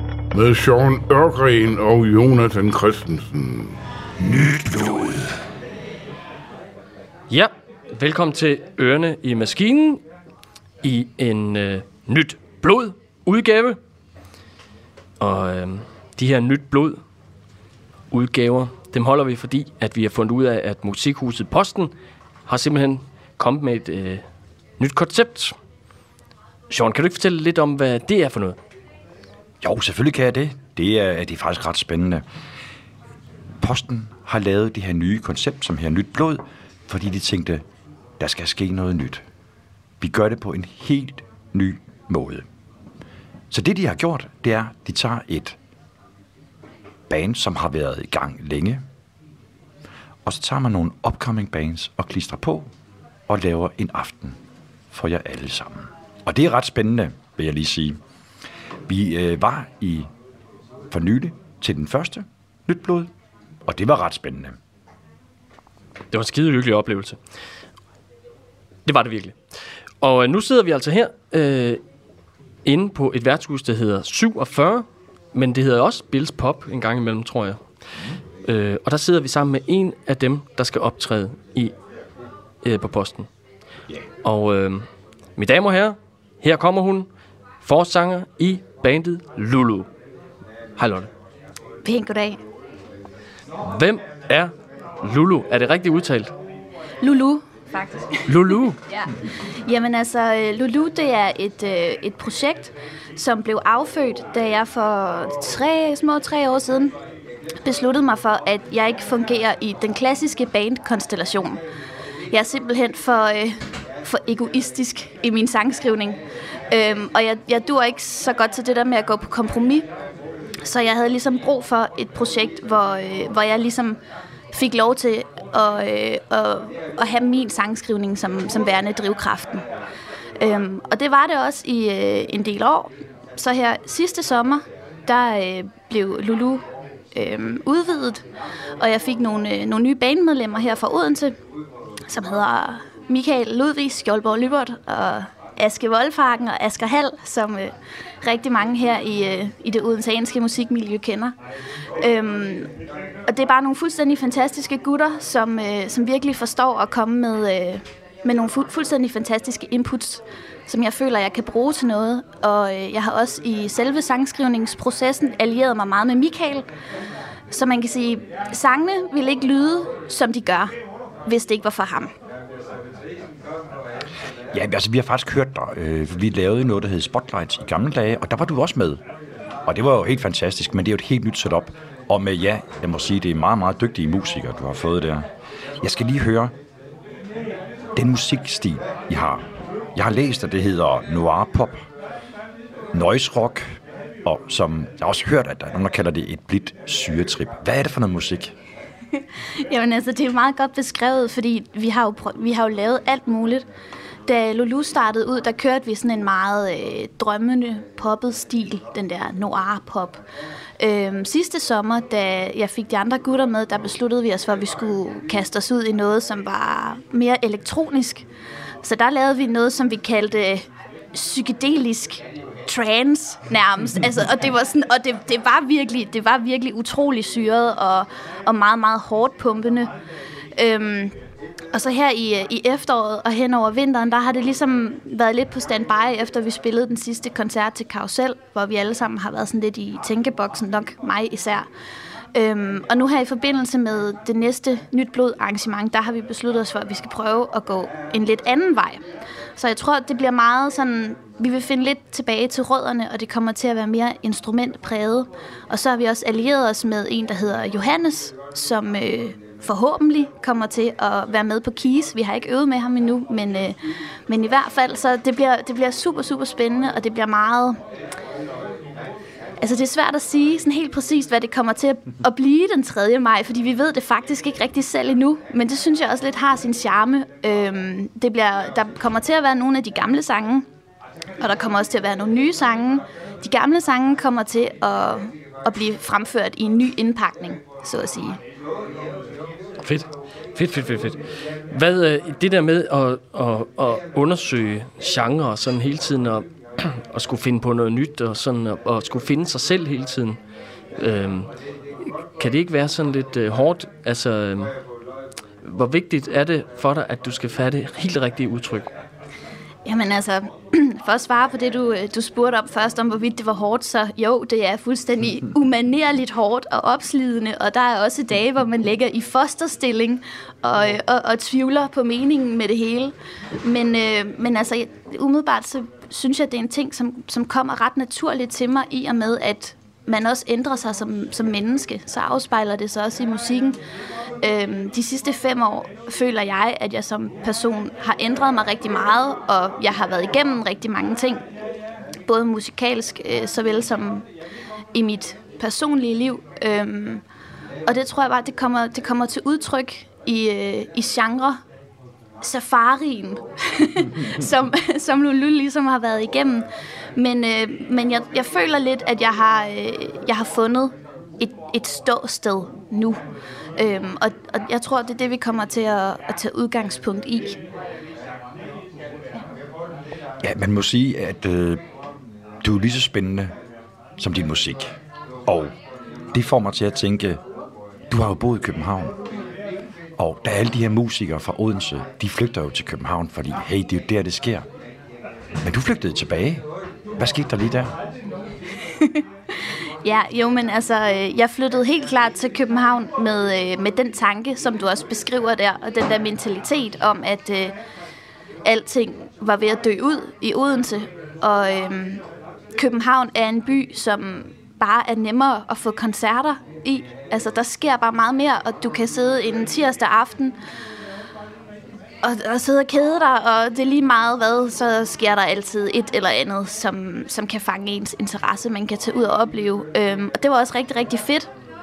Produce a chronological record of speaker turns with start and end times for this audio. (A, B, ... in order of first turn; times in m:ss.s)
0:00.3-0:03.8 A
0:04.2-0:05.4 B
0:07.3-0:10.0 C
0:10.8-0:13.8 C
0:15.2-0:17.0 C
0:18.1-0:21.9 C
0:22.5-0:24.2 C
0:24.8-0:25.6 C
0:26.7-0:28.6 C
0:29.6-0:32.2 B
0:33.6-0:37.6 B
0:38.2-0:39.2 B
0:40.0-0:42.4 B
0:43.5-0:45.6 B
0:47.1-0:48.8 B
0:50.3-0:52.7 B
0:53.3-0:54.4 B
0:54.9-0:58.0 B
0:58.9-1:00.1 B
1:00.9-1:03.1 B
1:03.7-1:04.6 B
1:06.1-1:07.2 C
1:08.8-1:09.3 C
1:10.0-1:11.8 C
1:12.6-1:17.6 C
1:18.4-1:21.7 C
1:22.6-1:23.3 C
1:24.2-1:24.8 C
1:25.4-1:27.1 C
1:27.6-1:29.9 C
1:30.8-1:31.1 C
1:31.8-1:32.4 D
1:33.6-1:36.3 C
1:37.0-1:46.9 D
1:38.3-1:38.8 C
1:47.6-1:51.6 D
1:52.3-1:56.2 D
1:56.7-1:59.9 D
2:00.6-2:04.0 D
2:04.5-2:09.6 D
2:10.4-2:16.6 D
2:17.1-2:18.2 D
2:18.8-2:21.3 D
2:22.1-2:31.3 D
2:32.0-2:32.7 D
2:33.3-2:46.7 D
2:47.5-2:50.7 D
2:51.2-2:52.1 D
2:54.5-2:59.0 B
2:59.7-3:05.3 B
3:05.8-3:06.5 B
3:08.0-3:09.4 B
3:09.9-3:11.8 B
3:12.9-3:13.7 B
3:14.2-3:18.5 B
3:19.7-3:23.7 D
3:24.2-3:30.2 D
3:30.8-3:38.2 D
3:38.8-3:49.9 D
3:50.6-3:51.1 D
3:51.7-4:01.7 D
4:02.3-4:09.0 D
4:09.6-4:23.8 D
4:24.3-4:27.8 D
4:29.6-4:40.6 D
4:41.4-4:48.4 D
4:49.8-4:51.2 C
4:51.7-5:00.4 C
5:01.0-5:01.5 C
5:02.1-5:04.7 C
5:05.6-5:08.9 C
5:09.8-5:33.8 D
5:34.4-5:41.4 D
5:42.3-5:44.2 D
5:44.9-5:47.2 D
5:47.9-5:51.6 D
5:52.4-6:03.2 D
6:03.8-6:07.6 D
6:10.4-6:11.8 B
6:12.6-6:13.5 B
6:14.2-6:14.9 B
6:15.5-6:15.7 B
6:16.3-6:17.4 B
6:18.1-6:19.2 B
6:20.2-6:24.6 B
6:25.6-6:26.6 B
6:27.2-6:27.9 B
6:30.0-6:37.8 D
6:38.6-6:42.2 D
6:42.8-6:50.6 D
6:52.2-7:01.5 D